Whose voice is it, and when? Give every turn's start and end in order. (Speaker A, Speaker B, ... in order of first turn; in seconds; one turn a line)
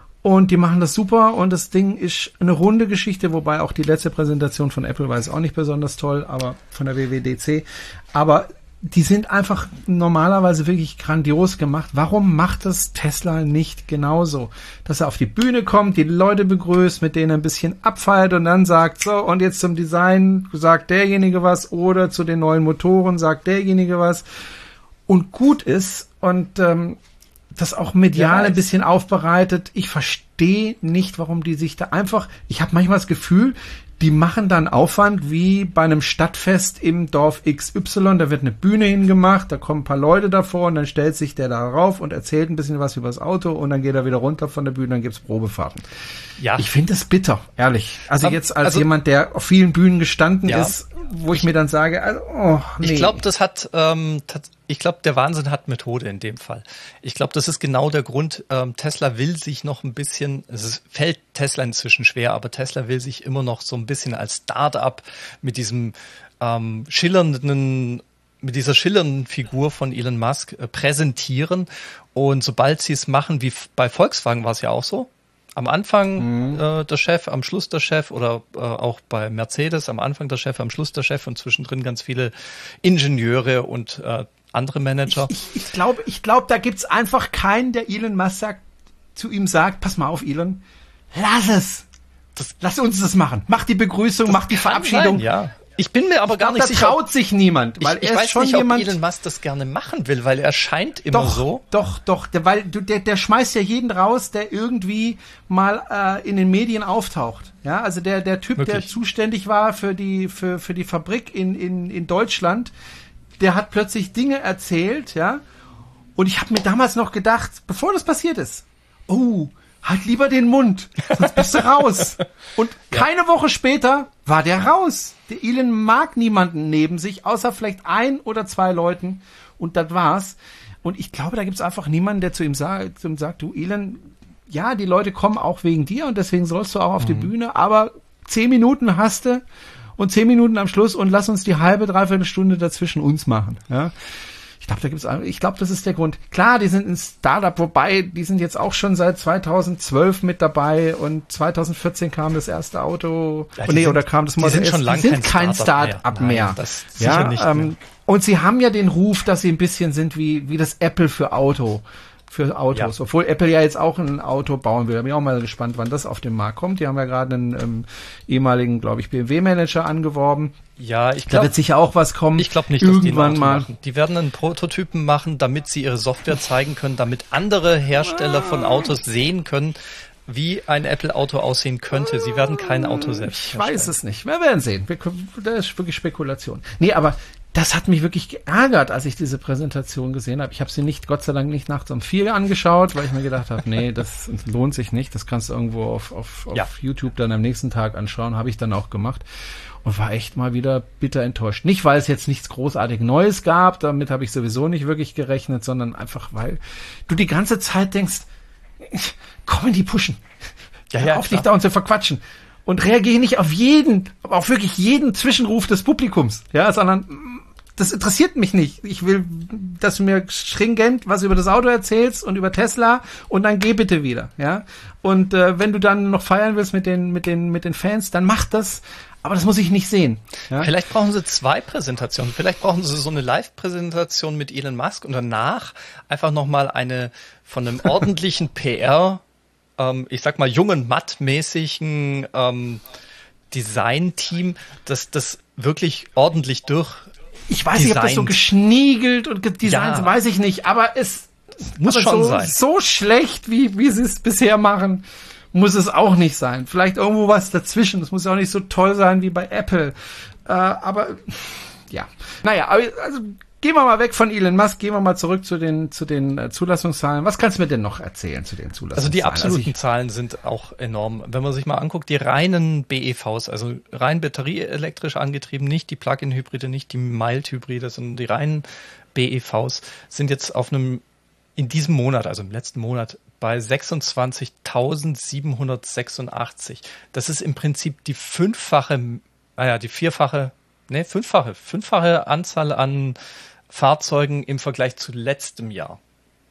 Speaker A: 0.2-24.2
Speaker A: 25.1-27.0
Speaker A: 27.5-45.8
Speaker B: 28.1-28.6
Speaker B: 46.4-46.7
Speaker A: 46.5-53.2
Speaker B: 48.2-48.9
Speaker B: 50.5-50.7
Speaker B: 52.8-85.3
Speaker A: 76.2-76.6
Speaker A: 85.2-88.6
Speaker A: 89.2-95.3
Speaker B: 94.2-97.0
Speaker A: 96.3-99.0
Speaker B: 97.8-101.6
Speaker A: 101.1-112.7
Speaker B: 108.6-108.9
Speaker A: 113.4-115.4
Speaker A: 116.2-139.4
Speaker B: 137.0-137.3
Speaker A: 140.0-143.9
Speaker A: 144.6-170.5
Speaker B: 153.6-157.7
Speaker B: 170.8-171.5
Speaker A: 171.3-173.7
Speaker B: 172.4-183.9
Speaker A: 182.6-199.2
Speaker A: 199.8-208.3
Speaker A: 208.8-210.2
Speaker B: 210.9-211.5
Speaker A: 211.0-230.7
Speaker B: 230.6-239.2
Speaker B: 239.8-242.8
Speaker B: 243.5-247.1
Speaker A: 247.5-259.9
Speaker B: 247.7-248.4
Speaker B: 249.6-250.1
Speaker B: 251.8-252.6
Speaker A: 260.4-269.7
Speaker B: 268.9-281.0
Speaker B: 281.6-293.2
Speaker B: 293.7-296.0